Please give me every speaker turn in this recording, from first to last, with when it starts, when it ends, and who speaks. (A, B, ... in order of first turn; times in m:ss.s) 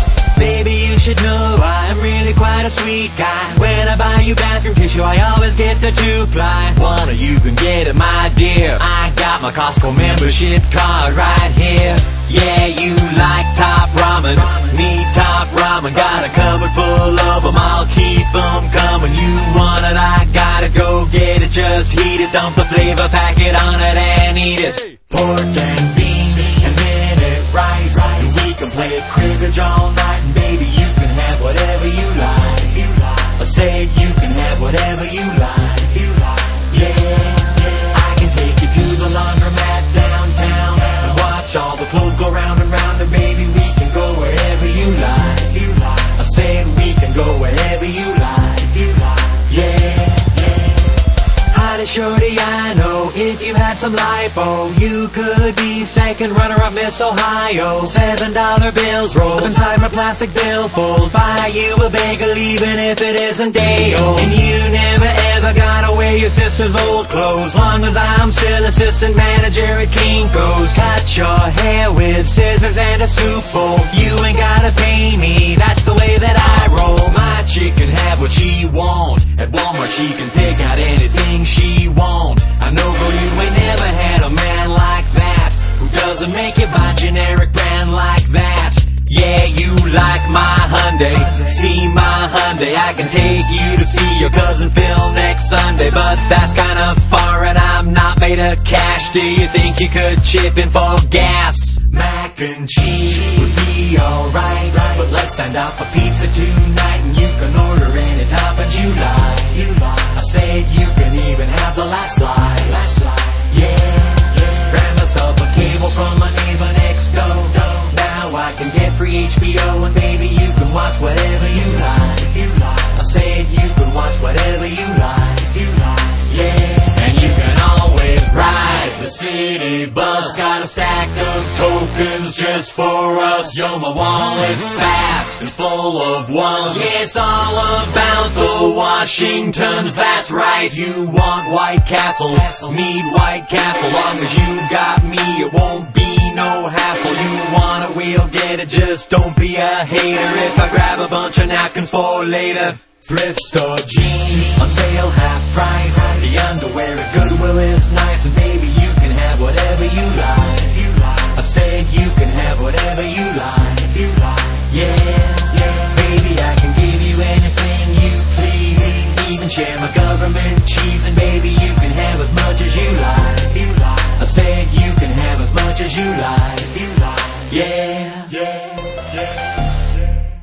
0:00.3-0:51.0 A
0:51.5-2:59.0 A